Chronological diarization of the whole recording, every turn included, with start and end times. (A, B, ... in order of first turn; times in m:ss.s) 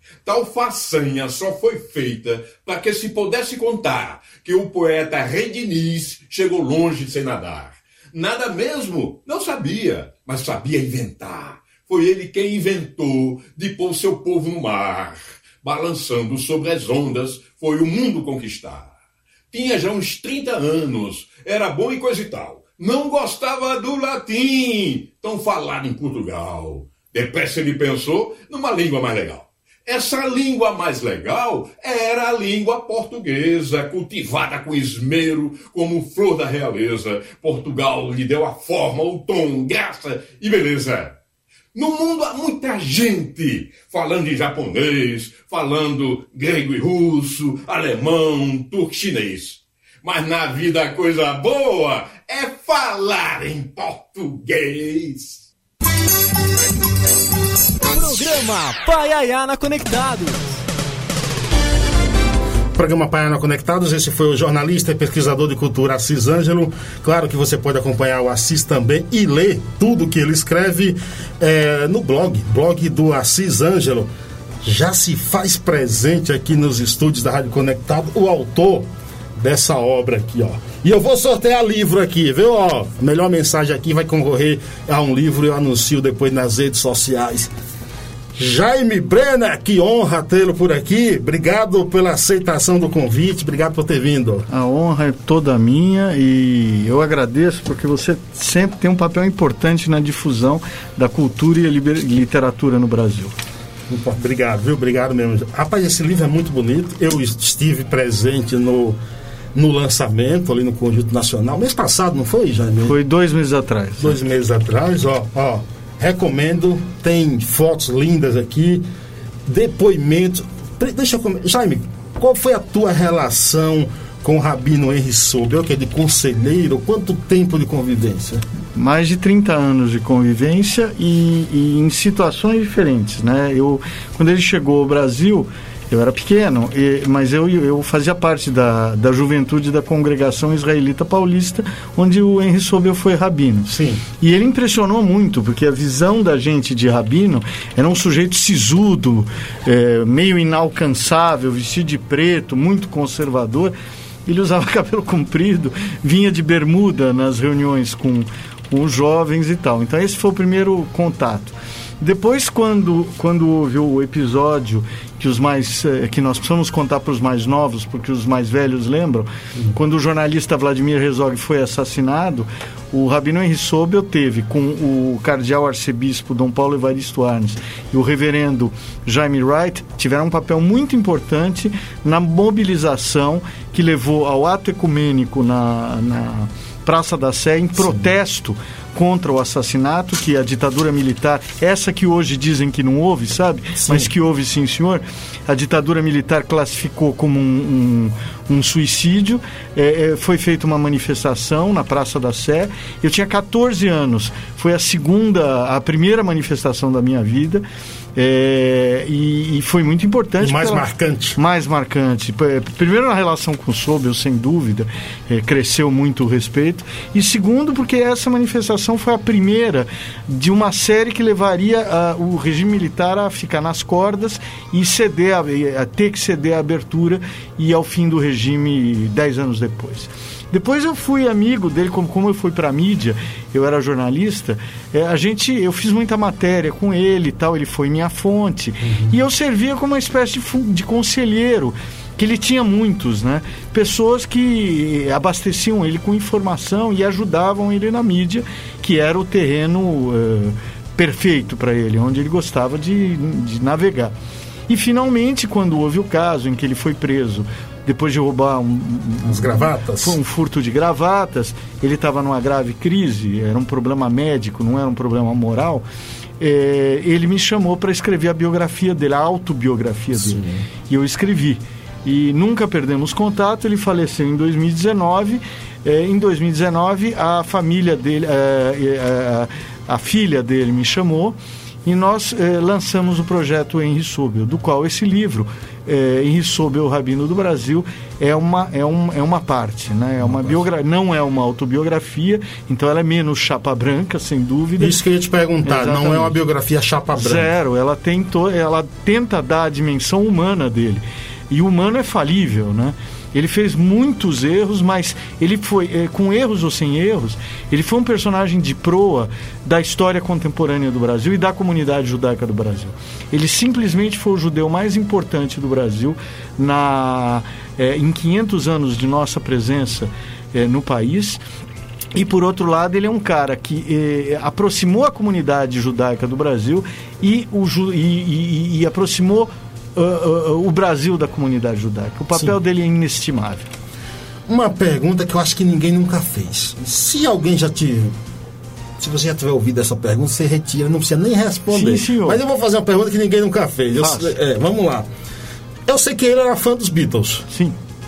0:00.2-0:18.9 A
0:19.5-0:41.2 A
0:41.7-0:55.5 A
0:57.8-1:00.6 B
1:02.8-1:14.1 C
1:14.6-1:27.5 C
1:28.4-1:34.5 C
1:34.5-1:43.3 D
1:43.9-1:49.0 C
1:49.5-1:53.0 C
1:52.8-1:54.2 D
1:54.0-1:58.8 C
1:59.5-2:08.4 C
2:08.8-2:33.7 D
2:23.7-2:24.0 C
2:34.3-3:27.6 D
3:13.8-3:14.1 C
3:28.2-3:30.8 D
3:30.4-3:31.4 C
3:31.4-4:14.2 D
3:58.8-3:59.2 C
4:14.7-4:25.8 D
4:19.2-4:20.2 C
4:26.4-4:55.0 D
4:30.2-4:30.7 C
4:50.2-4:50.6 C
4:54.8-4:57.5 C
4:55.6-4:56.4 D
4:57.1-5:21.4 D
5:22.1-5:33.7 D
5:34.5-5:38.2 C
5:39.0-5:45.1 C
5:41.7-5:42.4 D
5:44.0-5:44.4 D
5:45.9-5:47.5 C
5:47.5-5:47.8 D